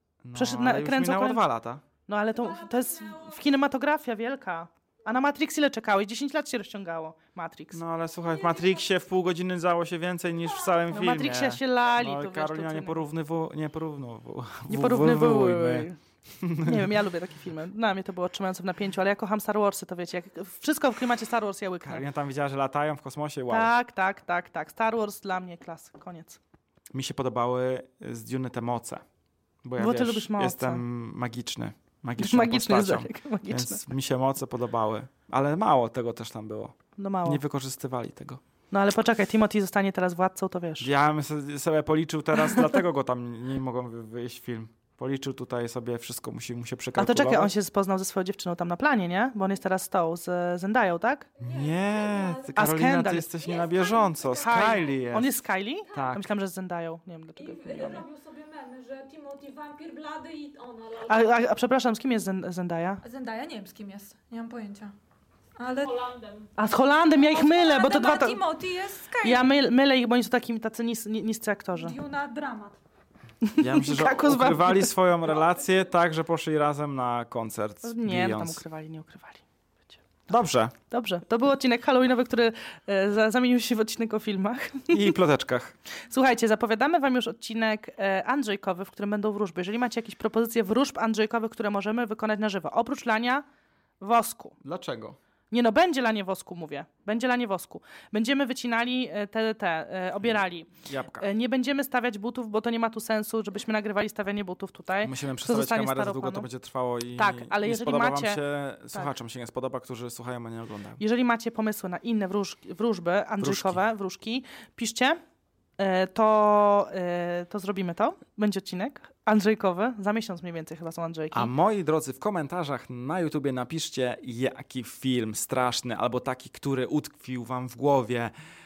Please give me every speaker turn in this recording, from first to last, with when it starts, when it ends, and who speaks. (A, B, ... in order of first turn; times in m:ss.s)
0:00.2-0:01.8 A
0:00.4-0:01.4 B
0:02.1-0:07.8 B
0:02.4-0:03.4 C
0:07.7-0:17.0 A
0:08.4-0:08.8 C
0:10.9-0:13.0 B
0:14.7-0:16.0 B
0:16.6-0:22.1 B
0:21.8-0:23.7 A
0:23.5-0:26.4 B
0:26.9-0:29.0 A
0:29.6-0:38.4 A
0:29.8-0:30.8 B
0:32.2-0:33.8 B
0:37.0-0:37.4 B
0:38.7-0:40.9 B
0:40.8-0:47.5 A
0:47.0-0:51.3 B
0:51.4-0:52.6 C
0:51.4-0:55.4 A
0:52.6-0:53.3 B
0:53.4-0:55.0 C
0:54.4-0:58.1 B
0:55.9-0:56.3 A
0:57.4-1:01.3 C
1:01.1-1:03.0 B
1:03.0-1:04.9 C
1:05.6-1:06.5 C
1:06.6-1:08.4 B
1:07.1-1:09.4 C
1:09.2-1:12.0 B
1:11.8-1:12.8 C
1:13.4-1:14.9 B
1:13.6-1:18.6 A
1:17.8-1:19.9 B
1:20.3-1:20.8 A
1:20.9-1:25.2 B
1:24.9-1:25.8 A
1:26.1-1:33.4 B
1:34.0-1:34.6 B
1:34.6-1:35.2 A
1:35.5-1:46.5 B
1:40.8-1:41.3 A
1:45.0-1:51.0 A
1:47.2-1:48.4 B
1:51.0-1:55.2 B
1:53.4-1:53.8 A
1:55.8-2:01.5 B
2:01.3-2:08.3 A